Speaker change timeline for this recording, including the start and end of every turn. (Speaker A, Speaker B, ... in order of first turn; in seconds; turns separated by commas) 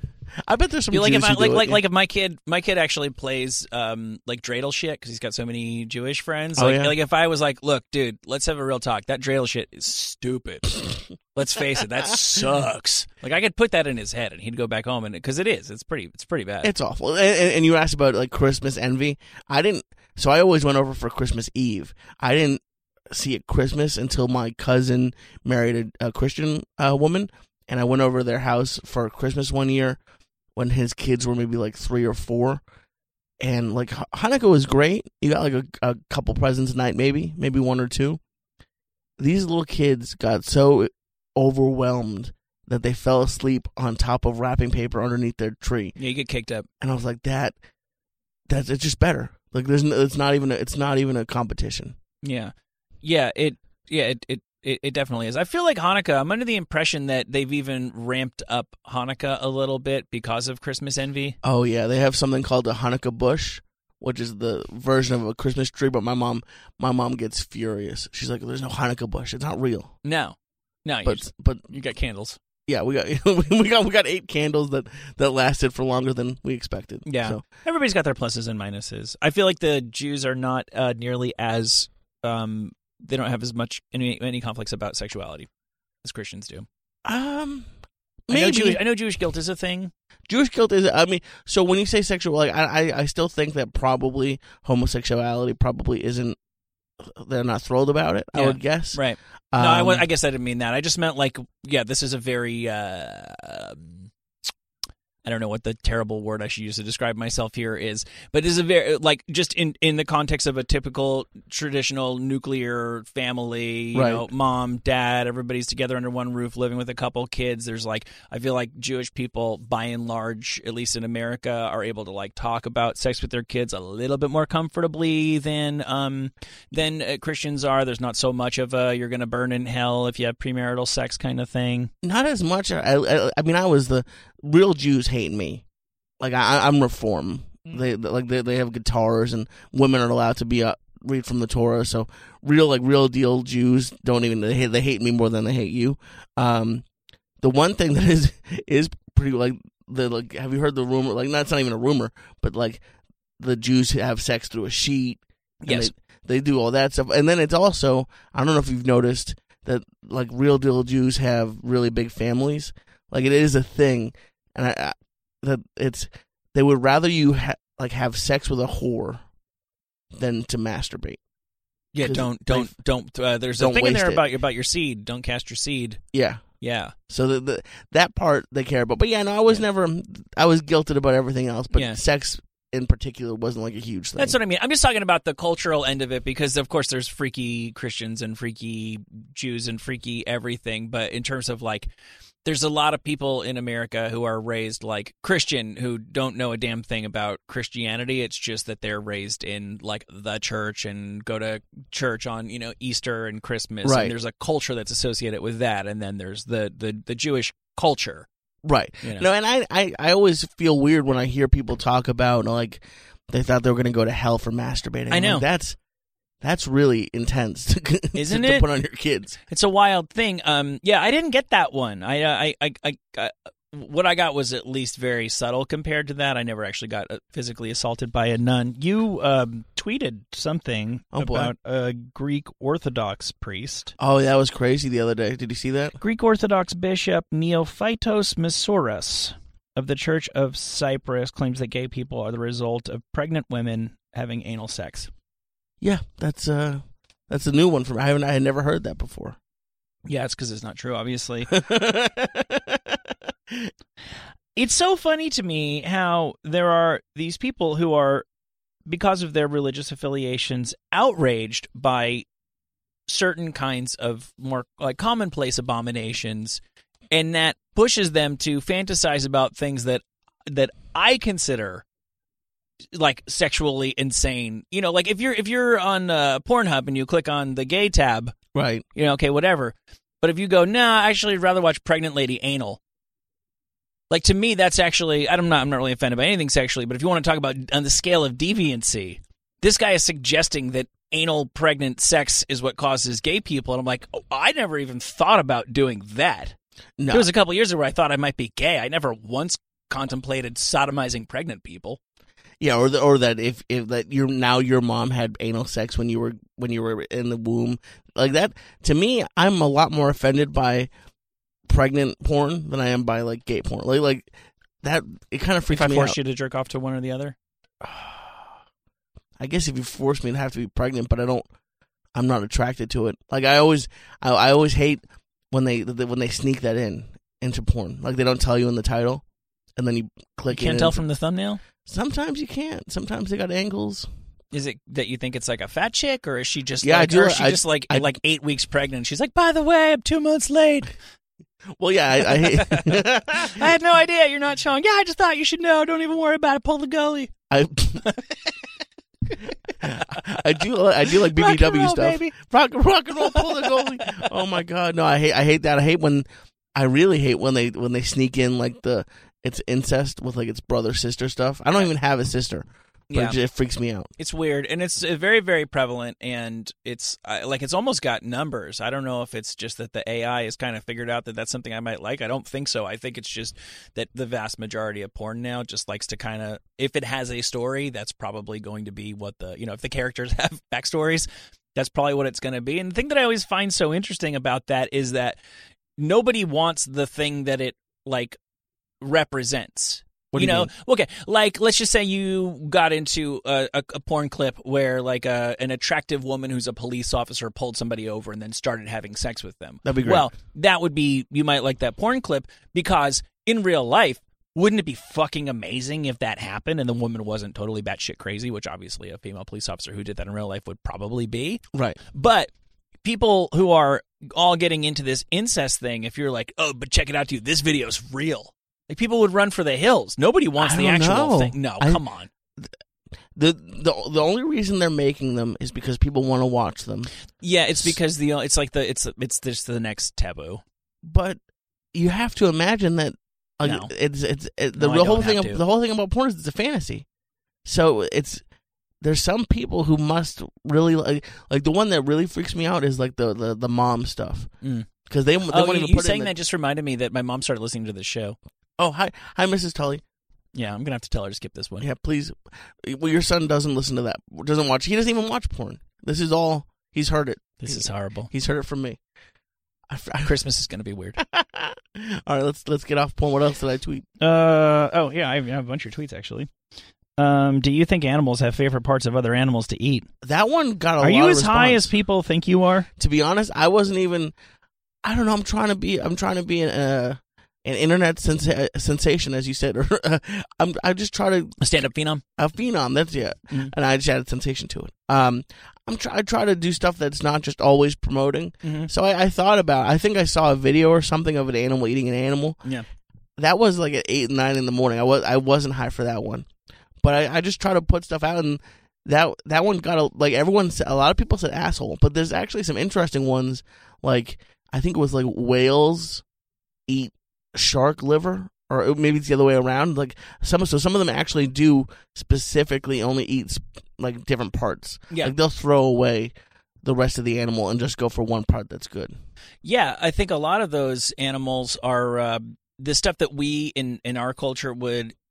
Speaker A: 0.5-1.8, Speaker B: 0.9-16.7, Speaker A: 6.6-7.0, Speaker A: 16.6-30.0, Speaker A: 30.6-32.6, Speaker A: 33.4-38.2, Speaker A: 39.2-46.0, Speaker B: 46.0-46.7, Speaker A: 46.8-47.6, Speaker A: 48.5-52.0, Speaker B: 52.2-61.4, Speaker A: 61.4-69.9, Speaker B: 70.0-72.4, Speaker A: 71.0-71.7, Speaker A: 72.7-77.4, Speaker B: 77.1-85.5, Speaker B: 86.0-86.7, Speaker A: 87.0-87.7, Speaker A: 88.3-88.8, Speaker B: 88.3-89.9, Speaker A: 90.3-96.4, Speaker A: 97.0-100.1, Speaker B: 98.3-104.1, Speaker B: 105.2-131.9, Speaker A: 113.9-114.2, Speaker A: 132.0-135.6, Speaker A: 136.2-146.8, Speaker A: 147.4-152.8, Speaker A: 153.4-169.2, Speaker B: 155.7-155.9, Speaker A: 170.2-171.2, Speaker B: 171.9-176.0, Speaker A: 172.0-172.7, Speaker A: 173.6-174.2, Speaker A: 176.1-176.4, Speaker B: 176.6-176.9, Speaker A: 177.1-184.4, Speaker B: 181.7-182.0, Speaker B: 184.2-191.9, Speaker B: 192.4-208.3, Speaker A: 203.8-204.1, Speaker A: 208.6-215.8, Speaker B: 209.0-209.3, Speaker B: 215.1-215.5, Speaker A: 216.4-219.4, Speaker B: 218.2-218.7, Speaker B: 219.5-233.9, Speaker A: 231.1-231.5, Speaker A: 234.0-236.0, Speaker B: 236.0-245.1, Speaker A: 245.8-249.4, Speaker B: 250.1-251.5, Speaker A: 251.5-253.7, Speaker B: 254.6-258.3, Speaker B: 258.9-262.3, Speaker B: 263.1-271.8, Speaker B: 272.9-278.4, Speaker A: 278.5-278.9, Speaker B: 278.9-282.8, Speaker B: 284.1-296.6, Speaker A: 297.0-297.3, Speaker B: 297.1-302.0, Speaker A: 302.6-310.9, Speaker A: 311.7-314.3, Speaker A: 314.8-316.2, Speaker B: 315.7-317.4, Speaker A: 317.8-318.5, Speaker A: 319.4-321.5, Speaker A: 322.1-329.2, Speaker A: 329.8-331.0, Speaker B: 330.5-331.6, Speaker A: 331.9-334.1, Speaker B: 334.5-340.9, Speaker A: 336.8-338.1, Speaker A: 341.8-343.6, Speaker B: 342.2-347.3, Speaker A: 347.5-348.1, Speaker A: 349.8-364.1, Speaker B: 351.1-352.3, Speaker B: 353.2-354.3, Speaker B: 363.1-363.4, Speaker B: 364.2-385.4, Speaker B: 386.0-388.4, Speaker B: 389.0-412.5, Speaker A: 390.3-390.7, Speaker A: 399.8-400.3, Speaker A: 411.7-412.0, Speaker B: 413.0-422.3, Speaker A: 420.6-422.0, Speaker A: 423.4-427.1, Speaker B: 427.4-430.6, Speaker A: 431.0-431.4, Speaker A: 431.9-437.1, Speaker B: 433.6-433.9, Speaker B: 434.8-435.6, Speaker A: 437.6-438.4, Speaker A: 439.0-444.5, Speaker B: 444.6-444.9, Speaker A: 445.1-446.3, Speaker B: 445.5-448.4, Speaker A: 448.8-450.0, Speaker B: 450.5-451.9, Speaker A: 451.8-459.0, Speaker B: 457.6-458.3, Speaker A: 459.9-460.3, Speaker B: 460.2-461.2, Speaker A: 461.2-464.1, Speaker B: 464.2-466.5, Speaker B: 467.2-470.1, Speaker A: 470.2-471.9, Speaker B: 471.0-472.9, Speaker A: 473.0-474.3, Speaker A: 475.0-481.6, Speaker B: 481.6-482.2, Speaker A: 482.4-492.6, Speaker B: 488.6-488.9, Speaker A: 493.4-496.5, Speaker A: 497.0-506.2, Speaker A: 506.9-519.1, Speaker B: 519.6-525.1